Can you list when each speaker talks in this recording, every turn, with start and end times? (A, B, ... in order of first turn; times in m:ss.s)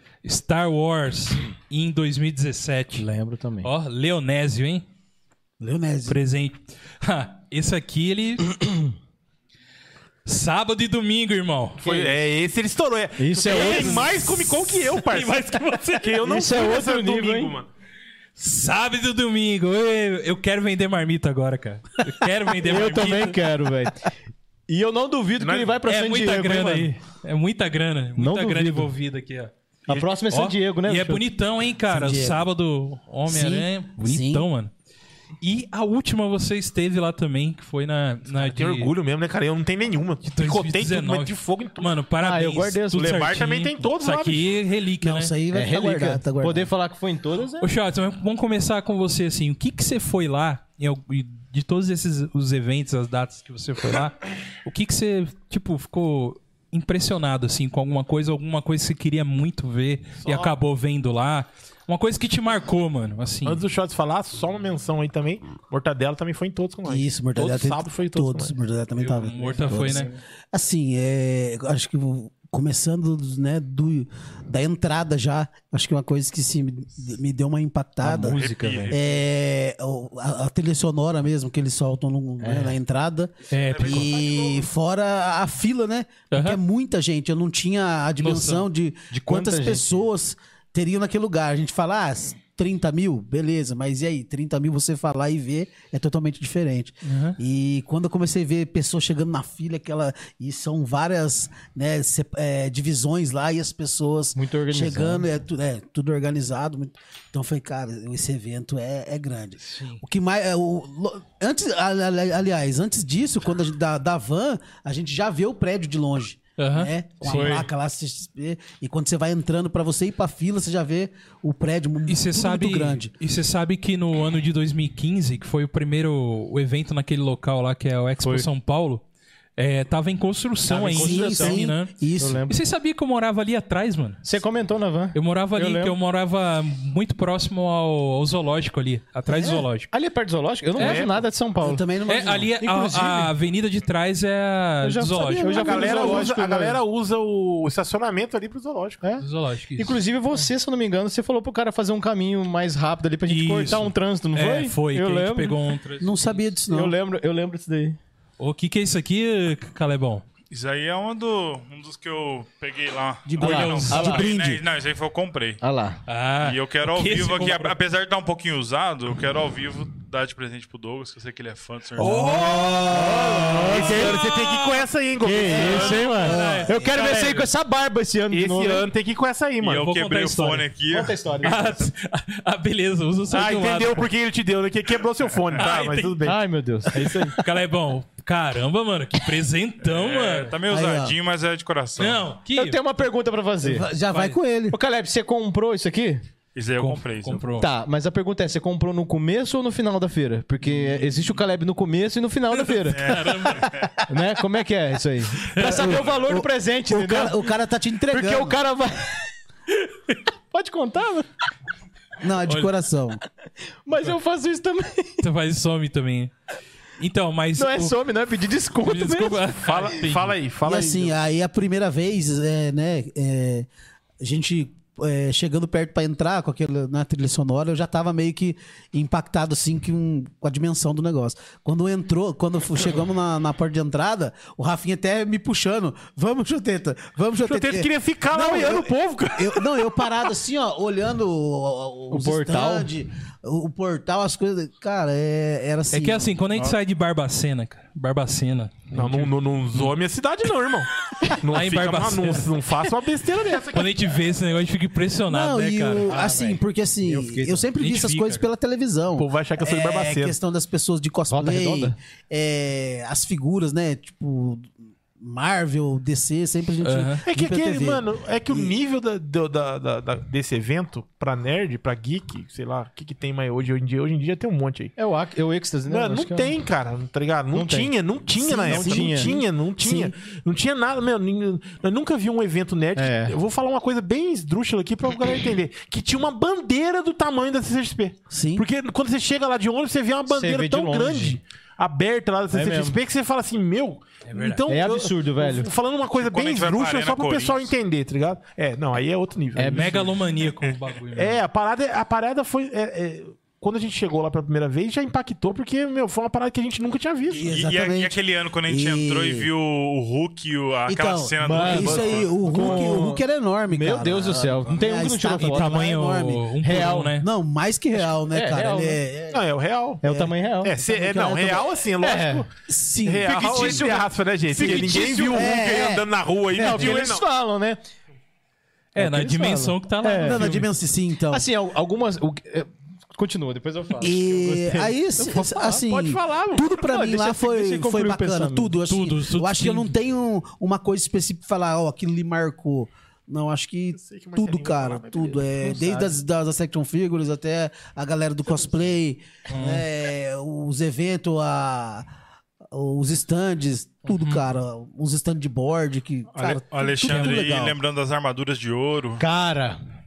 0:00.2-0:03.1 A
0:03.0-0:03.7 B
0:03.6-0:04.8 A
0:05.6-0:06.2 C
0:06.1-0:08.6 A
0:10.3-0:11.8 A
0:11.8-0:15.4 D
0:11.8-0:12.1 B
0:13.2-0:14.2 B
0:13.5-0:14.2 A
0:15.0-0:16.2 A
0:16.0-0:17.7 D
0:16.2-0:17.5 B
0:18.4-0:23.4 A
0:22.6-0:24.1 B
0:24.7-0:26.9 B
0:25.4-0:25.8 D
0:25.9-0:34.7 A
0:28.2-0:28.9 B
0:29.9-0:31.2 B
0:31.9-0:32.4 C
0:33.3-0:34.4 C
0:35.4-0:38.9 A
0:38.3-0:41.9 D
0:40.2-0:45.3 A
0:42.2-0:43.4 B
0:43.0-0:44.6 D
0:45.0-0:46.7 C
0:45.5-0:47.7 B
0:47.6-1:03.6 A
1:00.2-1:00.5 D
1:03.4-1:08.6 D
1:06.8-2:03.1 C
1:09.0-1:10.1 A
1:09.4-1:10.1 B
1:18.0-1:19.0 B
1:18.3-1:19.2 E
1:22.4-1:22.8 B
1:23.5-1:24.1 A
1:23.7-1:24.7 D
1:26.3-1:26.6 A
1:28.2-1:28.7 A
1:29.1-1:30.0 B
1:37.0-1:37.4 A
1:44.4-1:45.2 B
1:49.7-1:50.0 A
1:56.6-1:57.7 A
1:57.2-1:57.7 B
2:02.1-2:09.0 A
2:09.6-2:11.9 A
2:10.7-2:11.6 B
2:10.9-2:12.4 C
2:12.2-2:12.6 B
2:12.5-2:14.2 A
2:14.2-2:16.0 B
2:15.1-2:19.9 A
2:19.4-2:21.8 B
2:20.8-2:21.2 D
2:20.8-2:21.1 A
2:21.6-2:22.5 C
2:22.1-2:26.0 A
2:22.6-2:23.3 B
2:24.8-2:26.8 B
2:25.4-2:26.3 C
2:25.4-2:29.0 D
2:29.0-2:35.6 B
2:29.2-2:30.0 A
2:33.3-2:36.5 A
2:36.0-2:37.0 C
2:36.7-2:38.0 B
2:38.4-2:40.2 A
2:40.5-2:45.6 E
2:43.2-2:44.6 C
2:43.4-2:44.3 A
2:43.4-2:44.3 B
2:45.6-2:46.0 B
2:46.1-2:47.8 A
2:46.4-2:52.2 E
2:52.0-2:54.8 A
2:52.0-2:53.8 C
2:52.8-2:54.2 B
2:53.5-2:56.1 D
2:55.2-2:58.9 B
2:55.5-2:57.5 A
2:55.9-2:57.0 C
2:58.3-2:59.9 D
2:59.6-3:01.7 E
2:59.7-3:00.7 A
3:00.9-3:01.9 B
3:01.4-3:04.1 A
3:03.3-3:06.4 D
3:05.4-3:05.7 E
3:05.6-3:06.2 A
3:06.2-3:07.2 B
3:06.9-3:10.6 A
3:09.8-3:12.3 E
3:10.7-3:11.2 C
3:12.0-3:12.8 A
3:12.5-3:13.9 B
3:13.6-3:14.8 C
3:14.1-3:14.4 A
3:14.7-3:16.2 B
3:16.6-3:17.5 E
3:16.8-3:17.7 A
3:17.6-3:27.5 B
3:22.7-3:23.7 A
3:22.9-3:24.0 E
3:25.5-3:26.0 A
3:25.6-3:28.6 C
3:28.1-3:29.3 B
3:30.5-3:31.3 B
3:32.2-3:33.2 C
3:32.5-3:32.7 A
3:33.8-3:35.2 B
3:35.2-3:36.3 A
3:37.0-3:38.0 A
3:37.6-3:39.6 B
3:38.8-3:40.3 A
3:39.6-3:41.1 D
3:40.6-3:43.7 C
3:44.2-4:06.3 C
3:57.5-3:59.7 D
4:02.1-4:02.9 B
4:05.9-4:09.9 A
4:08.9-4:14.2 D
4:11.2-4:12.5 A
4:13.7-4:16.1 A
4:15.3-4:28.7 C
4:16.1-4:17.7 B
4:17.8-4:18.4 A
4:19.2-4:20.4 D
4:21.3-4:22.0 B
4:26.8-4:27.2 A
4:27.3-4:35.0 D
4:35.0-4:36.5 B
4:35.9-5:00.1 D
4:37.5-4:37.9 B
4:38.4-4:40.1 C
4:38.6-4:39.4 B
4:43.0-4:43.4 B
4:48.3-4:48.6 C
4:50.3-4:51.4 B
4:52.5-4:53.0 B
4:54.3-4:54.7 A
4:54.7-4:55.7 B
4:56.2-4:57.7 E
4:59.6-5:00.2 B
4:59.7-5:01.4 A
5:01.1-5:07.5 D
5:07.3-5:09.5 C
5:07.4-5:12.4 E
5:10.9-5:19.4 C
5:11.4-5:15.8 B
5:11.8-5:12.9 D
5:15.4-5:17.3 A
5:16.6-5:17.2 B
5:18.0-5:19.0 B
5:19.3-5:20.0 D
5:20.0-5:20.7 B
5:20.0-5:21.7 C
5:20.6-5:22.5 D
5:22.0-5:22.4 B
5:22.7-5:23.9 C
5:23.0-5:27.2 D
5:23.2-5:25.6 B
5:24.5-5:26.1 C
5:26.5-5:27.8 B
5:28.9-5:30.7 A
5:29.0-5:30.5 B
5:30.1-5:31.4 C
5:31.3-5:35.8 B
5:34.0-5:52.1 C
5:35.7-5:36.7 D
5:36.7-5:38.8 B
5:38.9-5:40.0 A
5:44.0-5:45.8 D
5:45.7-5:46.1 B
5:49.5-5:49.8 A
5:52.7-5:57.8 C
5:54.1-5:54.4 A
5:56.5-5:59.2 E
5:57.0-5:57.4 A
5:59.2-5:59.8 B